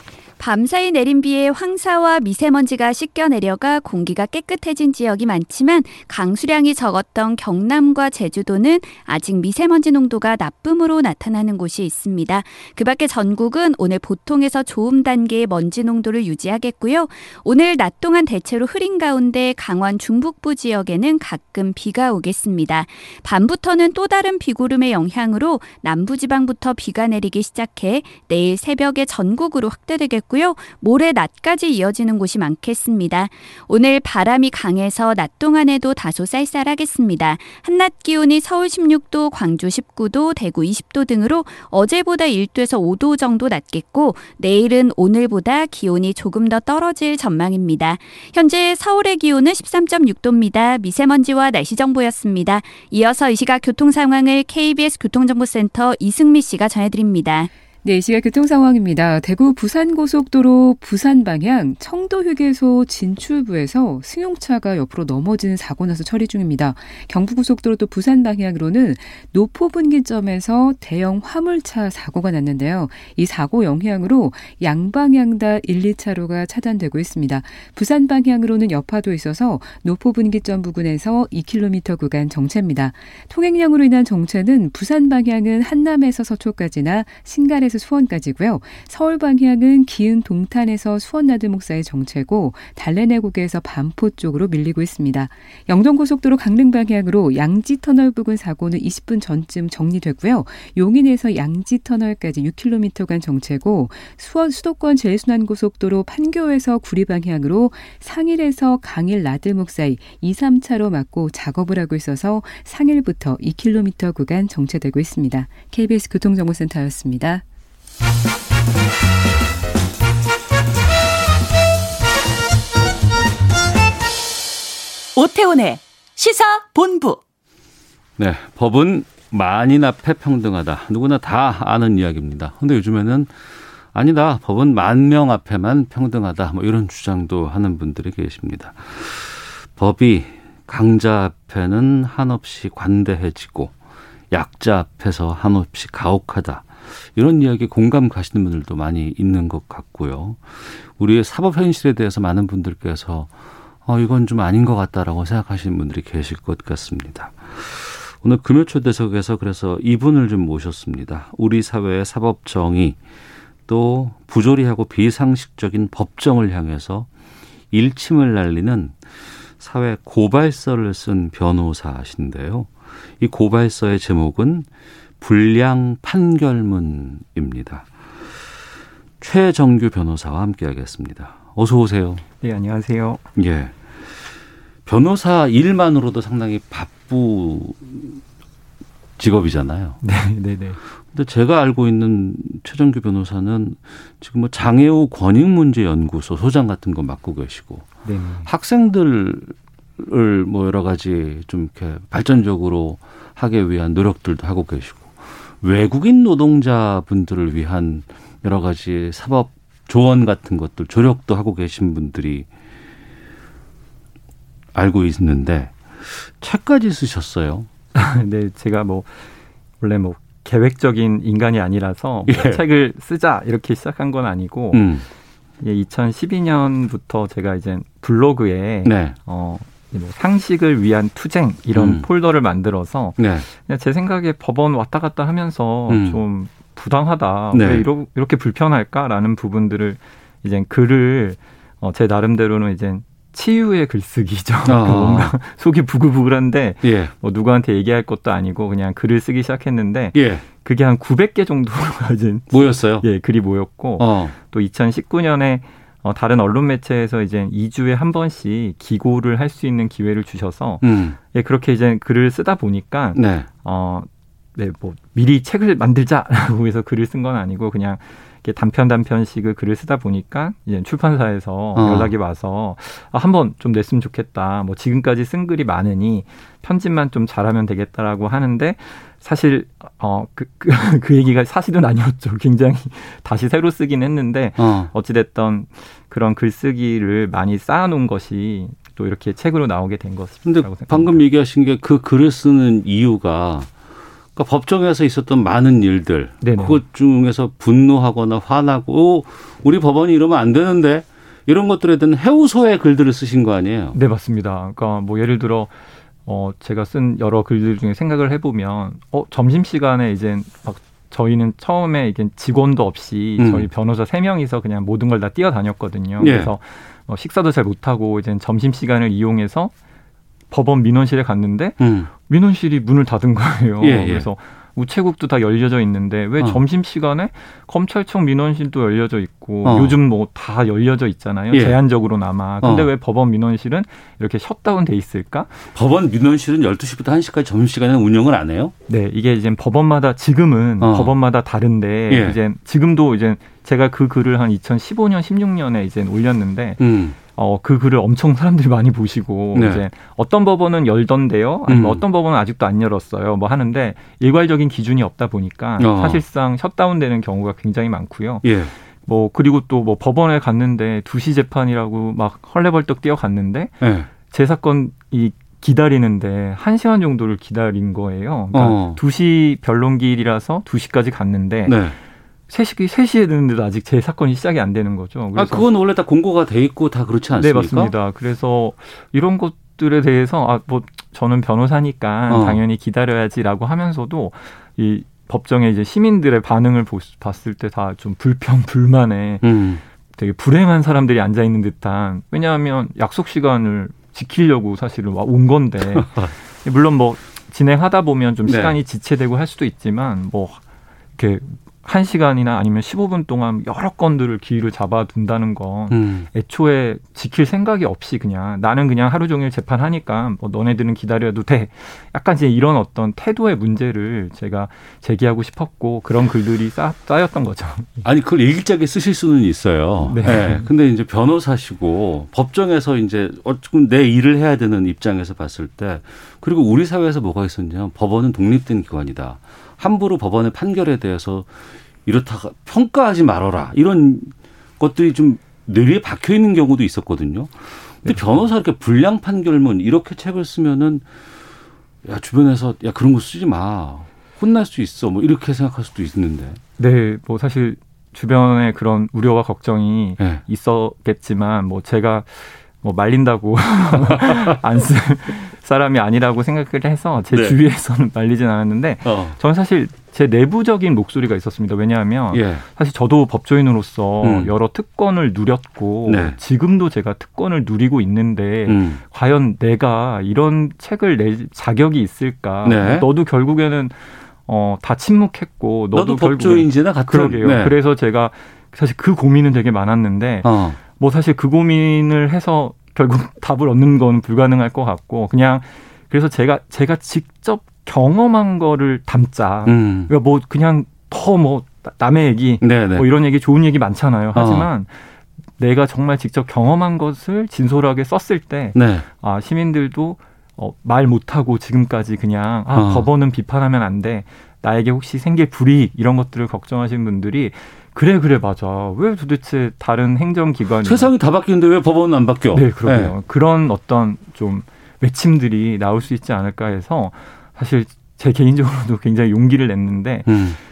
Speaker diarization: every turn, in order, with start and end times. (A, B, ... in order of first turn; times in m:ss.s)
0:00.4-0:57.5 A
0:57.8-1:57.4 B
2:05.2-2:07.2 C
2:08.2-2:13.3 D
2:13.9-2:23.8 D
2:24.3-2:33.3 D
2:33.8-2:43.0 D
2:43.7-2:47.1 D
2:47.7-2:54.7 D
2:55.2-2:58.1 D
2:59.2-3:02.2 D
3:02.4-3:03.2 E
3:03.4-3:04.0 D
3:04.9-3:08.2 D
3:09.2-3:10.0 D
3:10.0-3:10.8 E
3:11.1-3:17.9 D
3:18.0-3:18.5 E
3:18.5-3:32.5 D
3:34.8-3:37.7 D
3:38.0-3:39.2 E
3:39.8-3:44.9 E
3:42.3-3:42.6 D
3:44.7-3:45.0 D
3:45.6-4:51.2 E
3:48.8-3:49.2 D
3:51.7-3:52.1 D
3:53.2-3:53.5 D
3:55.9-3:56.2 D
3:57.5-3:57.9 D
4:04.7-4:05.3 D
4:06.8-4:07.1 D
4:10.1-4:10.5 D
4:12.5-4:13.0 D
4:14.0-4:14.4 D
4:20.8-4:21.2 D
4:23.2-4:23.5 D
4:31.8-4:32.1 D
4:44.6-4:44.9 D
4:50.4-4:53.7 D
4:54.4-5:04.0 D
4:56.4-4:56.8 E
5:03.9-5:05.7 E
5:06.3-5:19.7 E
5:13.4-5:13.7 D
5:16.2-5:16.5 D
5:20.5-5:35.6 E
5:21.8-5:22.1 D
5:23.8-5:24.3 D
5:29.6-5:30.0 D
5:31.5-5:31.8 D
5:32.6-5:32.9 D
5:35.7-5:38.7 D
5:38.9-5:58.5 E
5:40.8-5:41.2 D
5:42.1-5:42.4 D
5:46.8-5:47.2 D
5:49.6-5:49.8 D
5:51.7-5:52.0 D
5:55.8-5:56.2 D
5:58.4-5:58.7 D
5:59.1-6:11.8 E
6:03.8-6:04.1 D
6:08.5-6:09.0 D
6:11.7-6:12.0 D
6:12.5-6:15.7 E
6:15.4-6:17.9 D
6:17.4-6:29.5 E
6:22.3-6:22.6 D
6:29.4-6:29.8 D
6:30.2-6:40.6 E
6:35.9-6:36.3 D
6:38.5-6:38.8 D
6:41.2-6:58.0 E
6:45.9-6:46.3 D
6:58.0-7:21.1 D
7:00.0-7:00.7 E
7:18.0-7:18.4 E
7:22.0-7:26.6 D
7:26.8-8:31.1 E
7:34.0-7:34.4 D
7:37.3-7:37.6 D
7:39.0-7:39.4 D
7:42.3-7:42.6 D
7:44.2-7:44.5 D
7:46.1-7:46.4 D
7:48.7-7:49.0 D
7:52.6-7:53.1 D
7:55.9-7:57.8 D
8:00.4-8:00.8 D
8:09.7-8:10.1 D
8:12.6-8:13.1 D
8:14.4-8:14.7 D
8:18.7-8:19.1 D
8:22.7-8:23.1 D
8:30.8-8:33.1 D
8:32.5-8:40.5 E
8:40.3-8:40.6 D